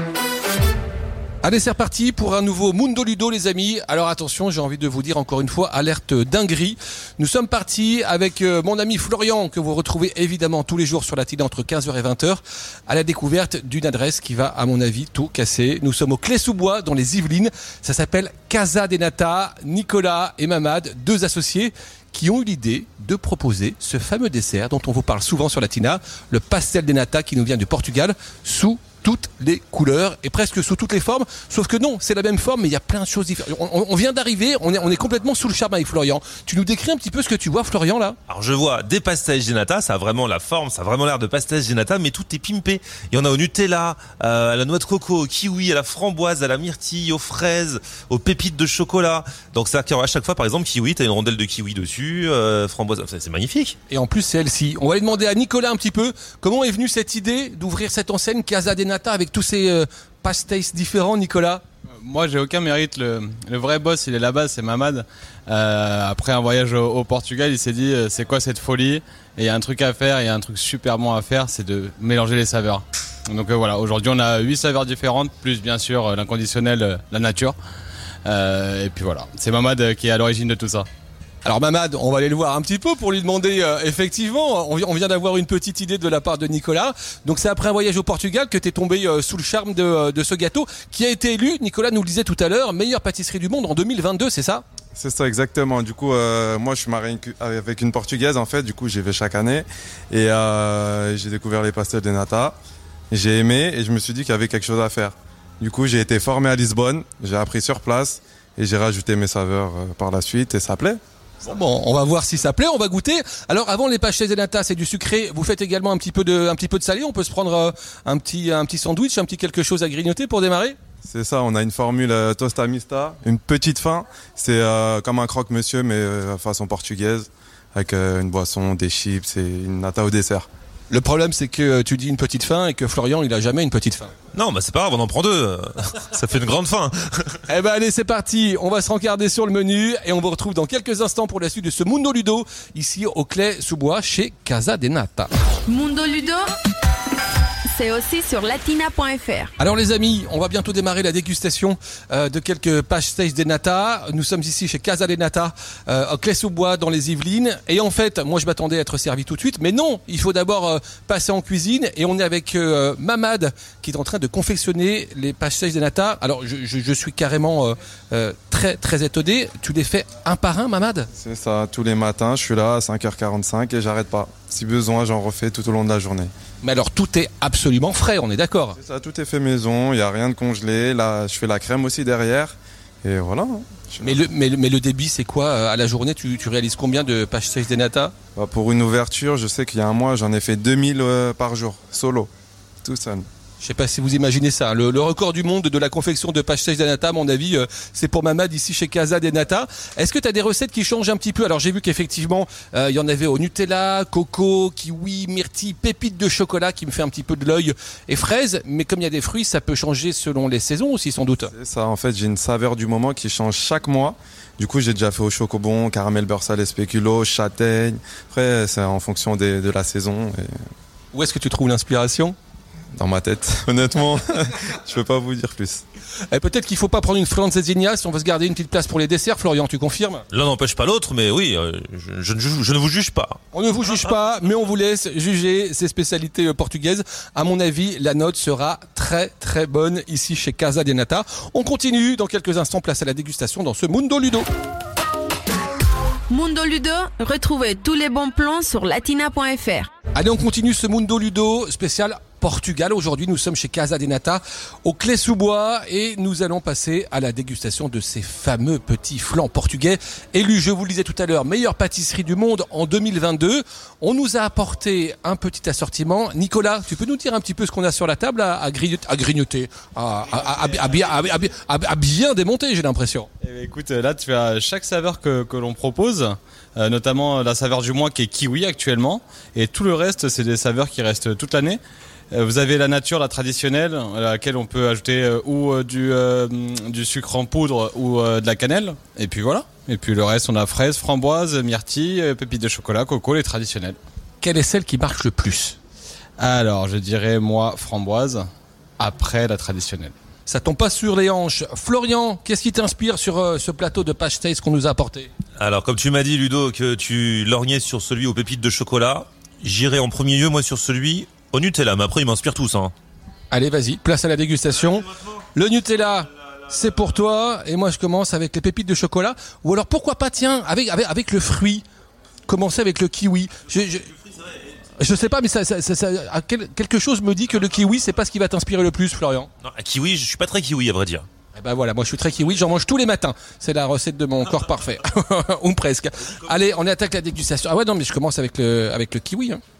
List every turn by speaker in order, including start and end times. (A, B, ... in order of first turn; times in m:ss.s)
0:01.4-0:38.2 A
0:38.3-0:53.8 B
0:53.9-1:01.6 A
1:02.0-1:17.6 C
1:18.2-1:20.9 C
1:21.4-1:34.6 A
1:35.0-1:42.6 D
1:43.1-1:51.0 D
1:51.4-2:00.8 A
2:01.0-2:10.5 D
2:10.9-2:14.1 A
2:14.3-2:17.4 B
2:17.5-2:25.3 A
2:25.7-2:26.5 E
2:27.7-2:29.5 E
2:29.6-2:51.1 A
2:51.2-2:56.3 D
2:56.6-2:58.8 A
2:58.8-3:04.2 D
3:04.0-3:08.1 A
3:08.4-3:12.3 D
3:12.8-3:13.3 D
3:13.6-3:31.5 A
3:31.5-3:40.6 D
3:41.1-3:42.4 A
3:43.0-3:45.8 D
3:46.3-3:50.2 A
3:50.3-3:53.4 B
3:53.5-4:04.5 A
4:06.3-4:09.9 E
4:10.1-4:33.3 A
4:33.4-4:54.0 C
4:54.4-4:55.8 A
4:56.4-5:00.1 C
5:00.5-5:05.3 A
5:05.6-5:12.9 B
5:13.5-5:21.8 A
5:22.5-5:24.1 A
5:25.0-5:29.5 A
5:29.6-5:31.3 B
5:31.6-5:39.6 A